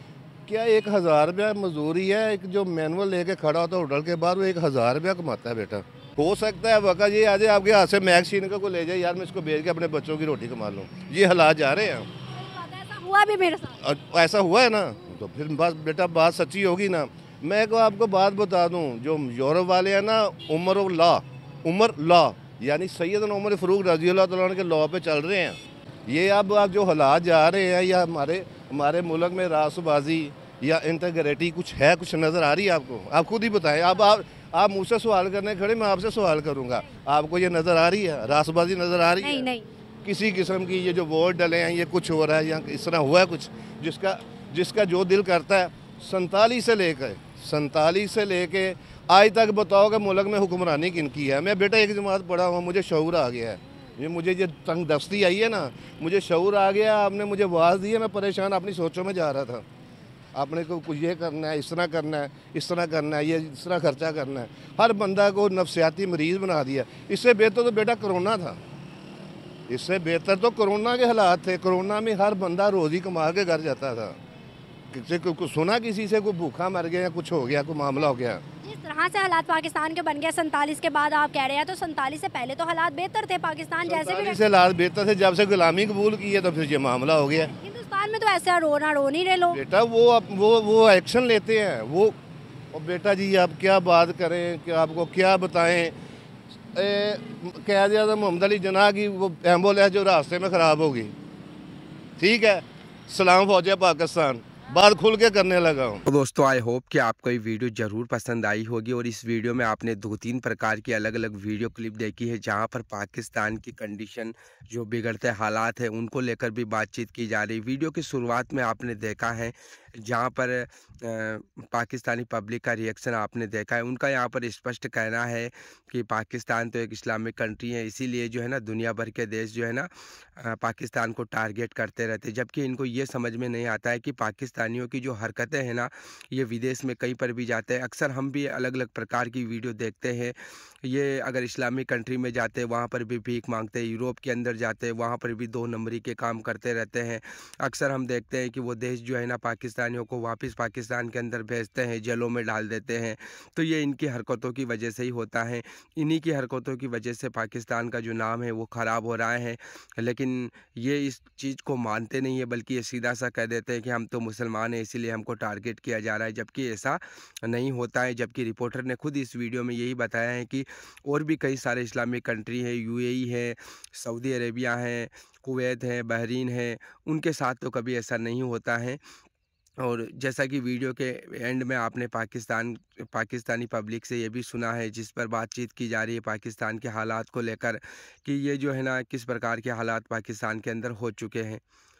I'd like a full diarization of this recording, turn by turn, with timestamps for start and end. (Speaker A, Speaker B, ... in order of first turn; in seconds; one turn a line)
Speaker A: 0.5-12.1
Speaker B: 12.3-13.8
Speaker A: 13.8-39.5
Speaker B: 39.2-39.6
Speaker A: 40.0-59.6
Speaker A: 60.4-68.6
Speaker A: 69.7-74.2
Speaker A: 74.9-78.4
Speaker B: 78.6-84.4
Speaker A: 83.8-87.5
Speaker B: 87.6-89.6
Speaker A: 89.5-92.1
Speaker A: 92.7-95.9
Speaker A: 96.7-101.1
Speaker A: 102.2-106.0
Speaker C: 106.1-179.0
Speaker C: 179.8-191.6